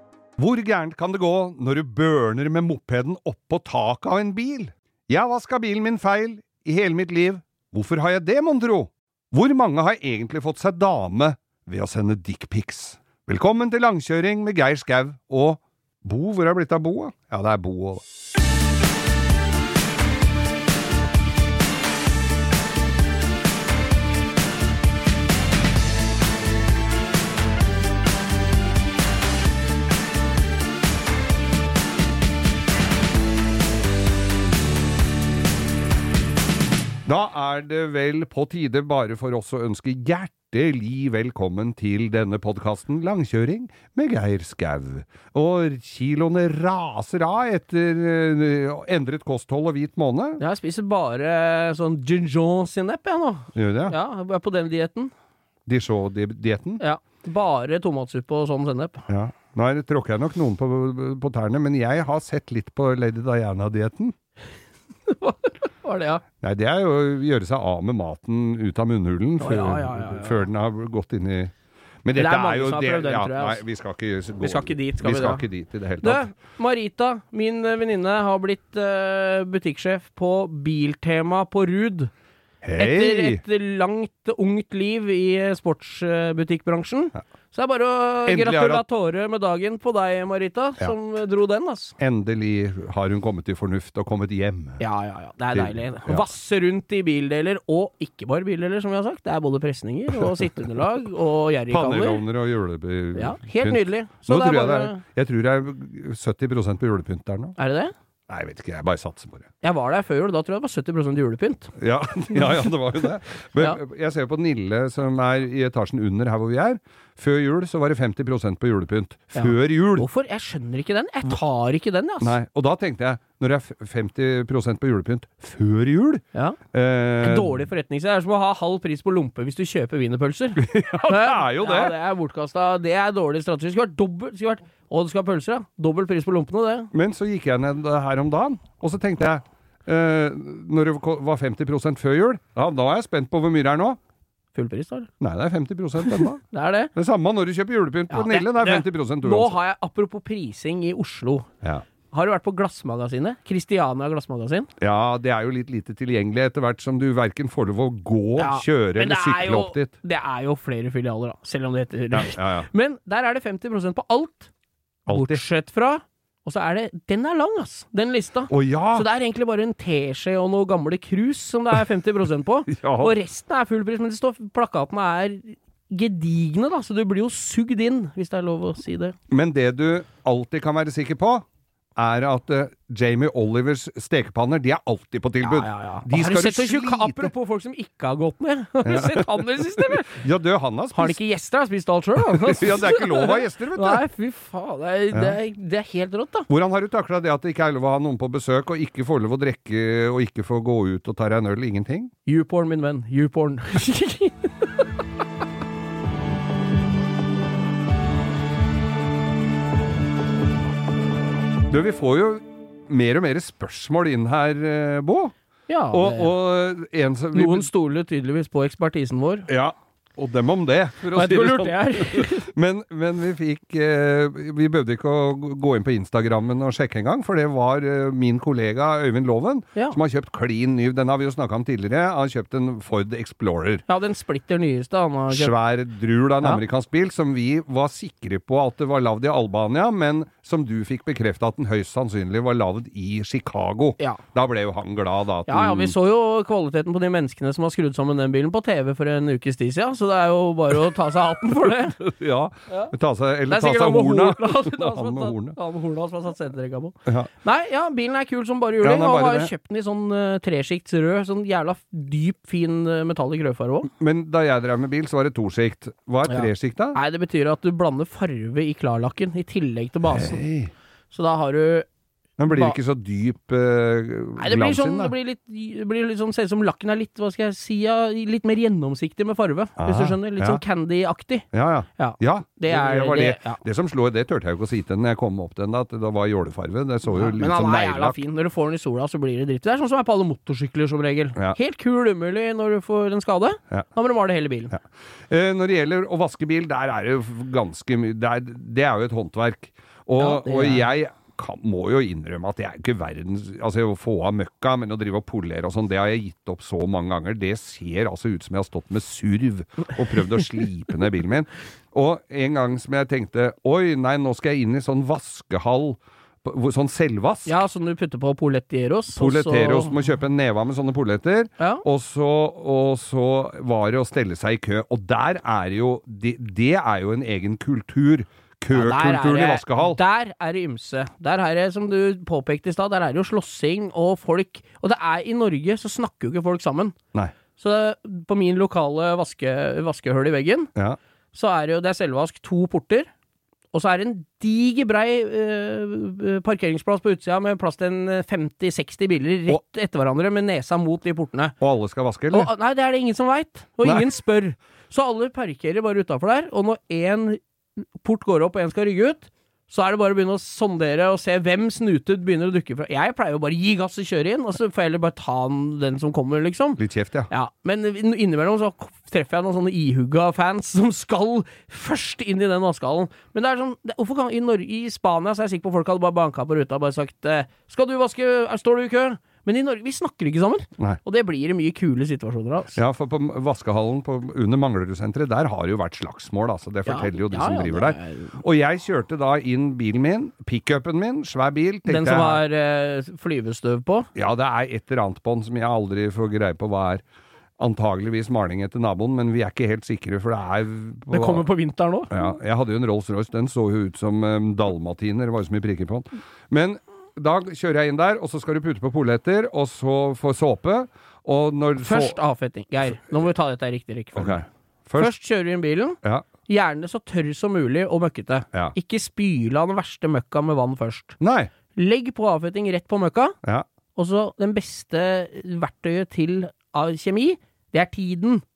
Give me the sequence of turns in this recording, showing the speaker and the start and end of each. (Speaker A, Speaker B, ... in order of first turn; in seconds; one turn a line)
Speaker A: 0.4-18.0
Speaker A: 37.1-50.4
Speaker B: 50.4-55.1
Speaker A: 53.5-54.0
Speaker A: 55.7-56.8
Speaker B: 56.8-59.1
Speaker A: 59.1-64.2
Speaker B: 65.1-66.2
Speaker A: 66.4-71.5
Speaker B: 69.4-70.4
Speaker A: 72.0-76.2
Speaker B: 72.2-73.6
Speaker B: 74.4-75.5
Speaker B: 76.0-82.1
Speaker A: 82.6-83.4
Speaker B: 82.8-92.0
Speaker A: 88.3-88.8
Speaker A: 92.0-94.8
Speaker B: 94.8-102.2
Speaker A: 95.5-96.3
Speaker A: 100.3-100.6
Speaker A: 101.7-107.5
Speaker B: 103.2-105.0
Speaker B: 107.6-107.9
Speaker A: 108.3-109.5
Speaker B: 109.6-111.7
Speaker A: 111.8-120.1
Speaker B: 112.3-112.7
Speaker B: 119.3-122.4
Speaker A: 122.2-127.7
Speaker B: 127.2-136.9
Speaker A: 130.6-132.0
Speaker A: 136.9-144.0
Speaker B: 144.6-145.1
Speaker A: 145.2-146.4
Speaker B: 146.0-146.9
Speaker A: 146.9-149.6
Speaker B: 148.1-151.5
Speaker B: 152.1-154.7
Speaker A: 154.8-159.9
Speaker B: 158.4-164.5
Speaker A: 162.1-162.7
Speaker A: 165.1-165.4
Speaker B: 165.1-179.2
Speaker A: 168.5-169.1
Speaker A: 172.7-173.1
Speaker A: 179.3-181.4
Speaker A: 182.0-187.3
Speaker B: 185.4-190.2
Speaker A: 188.8-191.2
Speaker B: 190.9-196.5
Speaker A: 192.2-194.0
Speaker A: 195.1-195.4
Speaker A: 196.5-202.1
Speaker B: 202.3-204.7
Speaker A: 211.7-215.3
Speaker B: 215.7-216.3
Speaker A: 215.9-217.7
Speaker B: 217.3-219.5
Speaker A: 219.5-233.8
Speaker B: 221.1-222.5
Speaker B: 233.9-235.5
Speaker A: 235.3-245.9
Speaker B: 245.5-252.0
Speaker A: 252.0-255.6
Speaker B: 253.5-263.9
Speaker A: 257.1-257.3
Speaker A: 258.8-259.5
Speaker A: 263.9-267.0
Speaker B: 266.3-270.4
Speaker A: 270.1-270.7
Speaker B: 271.1-271.9
Speaker A: 272.4-275.1
Speaker B: 272.5-272.8
Speaker B: 274.4-281.5
Speaker A: 279.8-280.6
Speaker A: 281.5-288.2
Speaker B: 282.0-283.6
Speaker B: 287.1-294.7
Speaker A: 294.7-317.6
Speaker B: 300.2-300.9
Speaker B: 317.5-319.9
Speaker A: 319.1-330.0
Speaker B: 321.6-321.8
Speaker B: 328.7-337.0
Speaker B: 337.6-340.7
Speaker B: 341.3-343.1
Speaker B: 343.7-351.6
Speaker A: 351.6-352.5
Speaker B: 352.3-357.4
Speaker B: 358.0-382.8
Speaker A: 366.8-367.3
Speaker A: 382.7-392.4
Speaker B: 386.9-388.4
Speaker B: 391.9-394.1
Speaker A: 394.1-397.0
Speaker A: 397.6-401.4
Speaker B: 401.1-402.1
Speaker A: 402.1-412.2
Speaker B: 411.8-414.4
Speaker A: 414.1-415.1
Speaker B: 415.0-421.2
Speaker A: 421.2-421.5
Speaker B: 421.8-423.4
Speaker B: 423.9-428.4